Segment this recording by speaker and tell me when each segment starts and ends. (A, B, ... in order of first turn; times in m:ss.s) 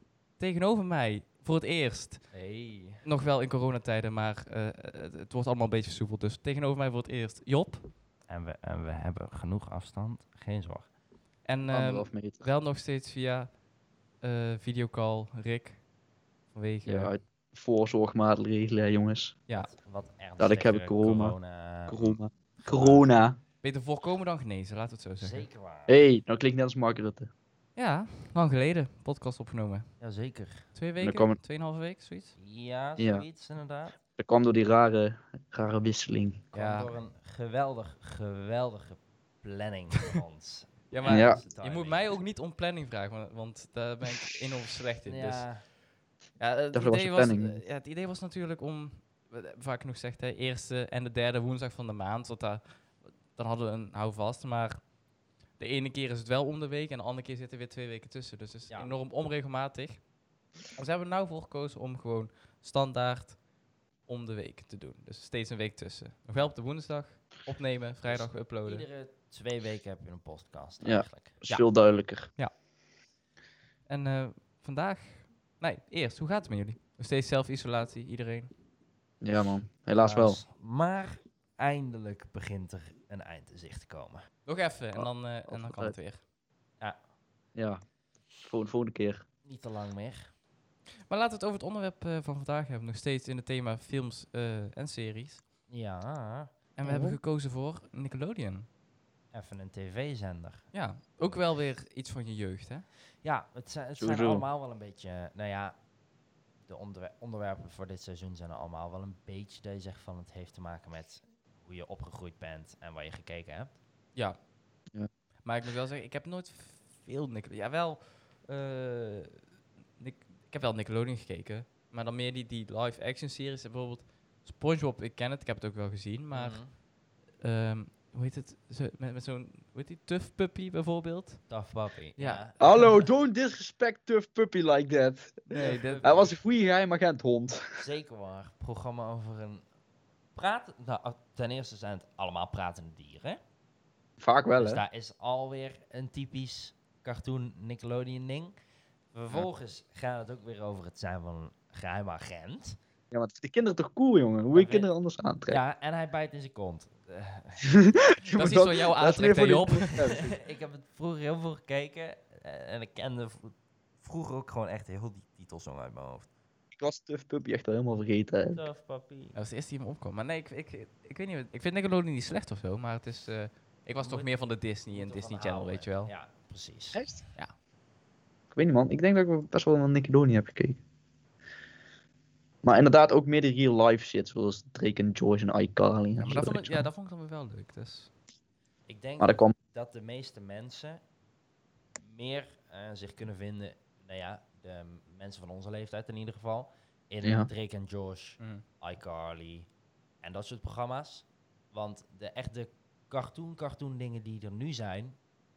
0:00.4-0:02.2 A
0:02.3-0:03.0 B
0:03.0-0:07.9 A
0:08.3-0:10.9 B
0:11.4-0:13.5 A
0:11.7-0:12.5 C
0:14.2-0:15.8 A
0:16.5-0:17.1 A
0:16.9-0:19.4 C
0:19.6-0:22.2 B
0:20.4-0:21.4 C
0:21.9-0:23.4 C
0:22.7-0:23.0 B
0:23.6-0:25.5 A
0:25.2-0:26.0 B
0:25.9-0:27.3 C
0:27.8-0:29.9 A
0:30.0-0:30.7 B
0:30.8-0:32.4 A
0:31.0-0:31.4 C
0:32.4-0:34.0 B
0:33.0-0:33.2 C
0:34.2-0:36.4 C
0:36.5-0:42.2 B
0:36.5-0:36.9 A
0:40.9-0:45.5 A
0:41.1-0:41.4 C
0:45.1-0:45.6 B
0:46.4-0:52.6 A
0:46.7-0:47.6 C
0:53.3-0:54.8 A
0:55.6-1:00.0 A
0:58.7-0:59.0 B
1:00.7-1:03.4 A
1:04.1-1:08.9 A
1:08.0-1:11.4 B
1:10.8-1:12.3 C
1:13.9-1:18.5 A
1:19.2-1:20.4 C
1:20.0-1:24.2 B
1:24.5-1:26.2 A
1:25.0-1:26.0 C
1:27.6-1:27.8 C
1:28.4-1:29.2 C
1:29.4-1:30.3 B
1:31.1-1:35.4 A
1:35.7-1:36.5 B
1:36.8-1:38.7 A
1:36.8-1:37.2 C
1:39.3-1:40.6 B
1:40.7-1:42.9 A
1:43.2-1:45.8 B
1:44.0-1:44.4 C
1:46.7-1:53.8 B
1:55.4-1:59.4 A
2:00.0-2:06.6 A
2:06.3-2:06.7 B
2:07.4-2:11.4 A
2:11.5-2:13.1 B
2:12.2-2:12.9 A
2:12.6-2:17.8 C
2:15.5-2:16.3 A
2:15.6-2:16.4 B
2:17.8-2:19.6 B
2:20.4-2:23.4 B
2:24.2-2:24.8 C
2:24.6-2:28.5 B
2:29.1-2:32.8 B
2:33.1-2:35.6 C
2:34.5-2:34.9 B
2:35.5-2:37.7 B
2:37.6-2:40.4 C
2:38.3-2:40.2 A
2:40.2-2:46.3 B
2:46.8-2:48.6 C
2:48.5-2:49.4 B
2:49.4-2:56.1 A
2:54.0-2:54.3 B
2:54.9-2:57.1 B
2:57.0-2:57.2 C
2:58.5-3:00.8 C
3:02.6-3:06.9 C
3:06.2-3:08.1 A
3:08.9-3:11.0 B
3:09.2-3:09.5 C
3:12.0-3:19.7 B
3:17.2-3:17.5 C
3:18.4-3:18.6 A
3:20.2-3:25.2 B